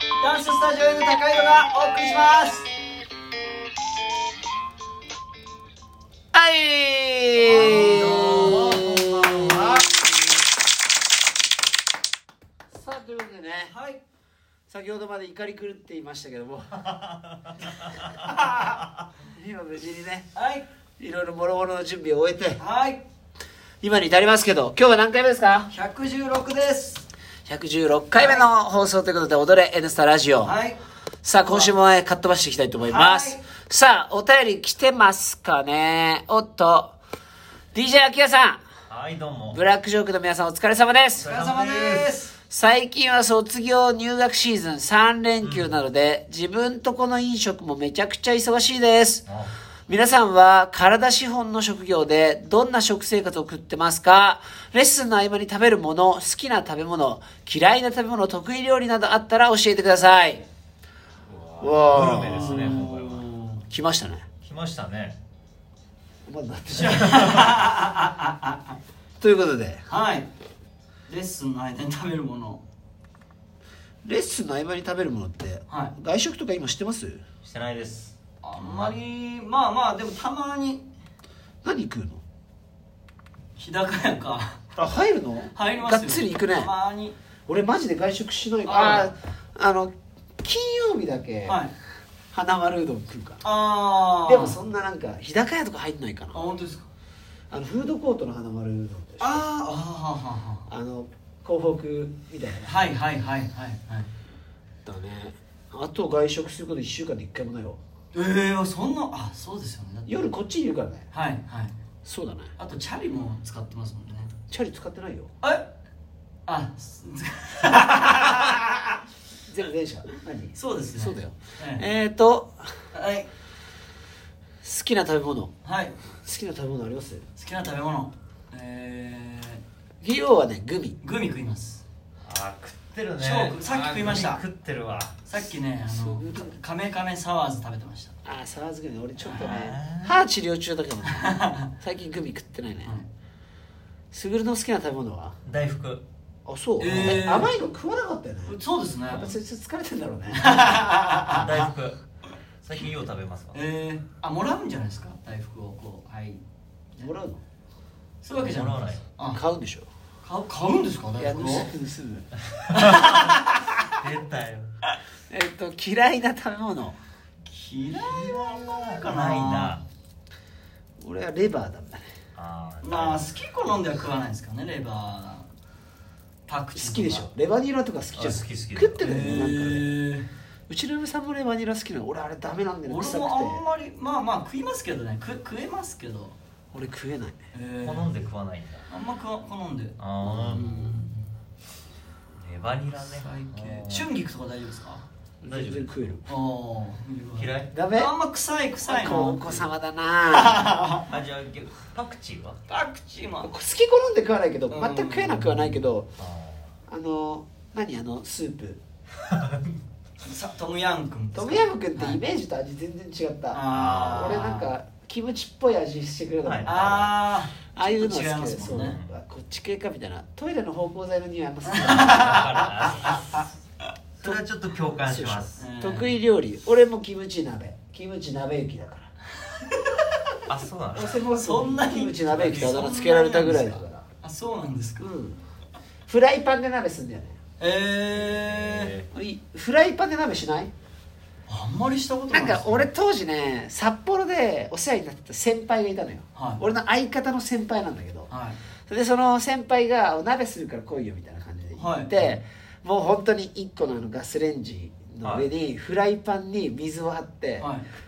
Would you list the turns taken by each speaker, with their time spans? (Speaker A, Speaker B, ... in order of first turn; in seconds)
Speaker A: 0.2-2.7, 7.3-8.8, 13.7-14.0, 20.3-20.6, 22.6-23.0, 25.7-27.1, 28.1-28.4, 30.4-30.8, 31.4-31.7, 32.8-33.4, 41.2-42.3, 62.0-63.6, 66.7-68.8, 69.9-70.3, 71.1-72.6, 75.7-75.9, 78.4-80.8, 83.6-84.6, 85.5-87.2, 88.7-89.1, 91.5-91.7, 93.4-94.6, 96.3-96.9, 99.2-100.7, 102.7-104.1, 108.1-110.2, 111.1-111.7, 112.6-114.3, 115.4-115.7, 116.5-119.0, 120.5-121.8, 122.9-123.3, 125.6-126.0, 127.4-129.6, 131.0-131.8, 133.2-134.4, 135.2-138.1, 141.1-141.6, 146.8-147.5, 148.4-149.3, 150.3-151.7, 153.5-156.4, 158.2-159.4, 160.2-161.7, 162.8-163.4, 167.5-169.8, 172.8-175.5, 176.5-177.3, 179.0-180.3, 182.8-186.3, 187.5-188.1, 188.9-190.0, 190.5-191.2, 193.0-195.1, 196.3-199.7, 200.3-201.1, 202.7-203.5, 204.7-205.8, 210.2-212.2, 213.5-214.7, 216.7-219.0, 221.7-223.4, 225.6-226.1, 229.6-230.0, 231.3-235.4, 237.6-238.9, 241.5-242.9, 246.3-246.6, 248.3-248.6, 251.7-252.3, 257.6-257.9
Speaker B: 6.3-10.1, 12.7-13.7, 14.7-16.9, 18.3-20.3, 21.0-22.6, 23.8-25.7, 27.5-30.6, 31.2-37.0, 37.7-38.6, 39.5-41.3, 42.5-49.3, 49.9-60.4, 61.6-62.7, 63.7-64.2, 66.3-67.5, 69.2-69.8, 74.0-77.2, 81.6-82.2, 84.8-86.7, 87.5-91.6, 92.3-93.4, 94.2-96.4, 97.5-99.5, 100.7-102.8, 104.9-107.8, 110.1-111.0, 112.0-112.5, 114.5-115.3, 119.4-122.7, 124.6-125.5, 126.2-127.2, 130.0-131.0, 135.9-136.6, 138.2-143.0, 144.1-145.4, 146.4-148.6, 149.1-150.9, 157.0-157.4, 159.3-159.9, 161.2-162.3, 165.3-167.0, 171.0-172.1, 176.8-179.9, 180.7-183.6, 186.7-187.4, 190.2-190.9, 195.4-196.3, 197.7-198.1, 198.8-200.8, 203.4-206.1, 206.9-208.8, 211.3-217.1, 217.7-222.6, 225.1-229.1, 230.9-234.0, 236.1-237.4, 239.1-240.7, 242.3-248.3, 248.9-257.7
Speaker C: 7.5-9.9, 16.9-18.1, 38.9-39.6, 41.2-42.1, 45.4-45.7, 49.3-49.5, 61.2-63.3, 64.4-65.2, 77.4-79.0, 132.2-135.2, 139.2-140.2, 145.4-146.0, 151.3-152.0, 152.6-153.6, 158.3-159.0, 164.0-164.7, 167.9-169.8, 172.3-173.3, 178.2-179.5, 187.8-188.9, 190.0-190.9, 192.4-194.1, 195.5-195.9, 197.4-197.7, 201.1-202.6, 206.2-206.7, 209.3-209.6, 213.7-214.3, 216.4-217.1, 218.7-219.1, 222.1-223.2, 224.2-225.6, 230.5-231.2, 232.4-232.8, 238.2-239.1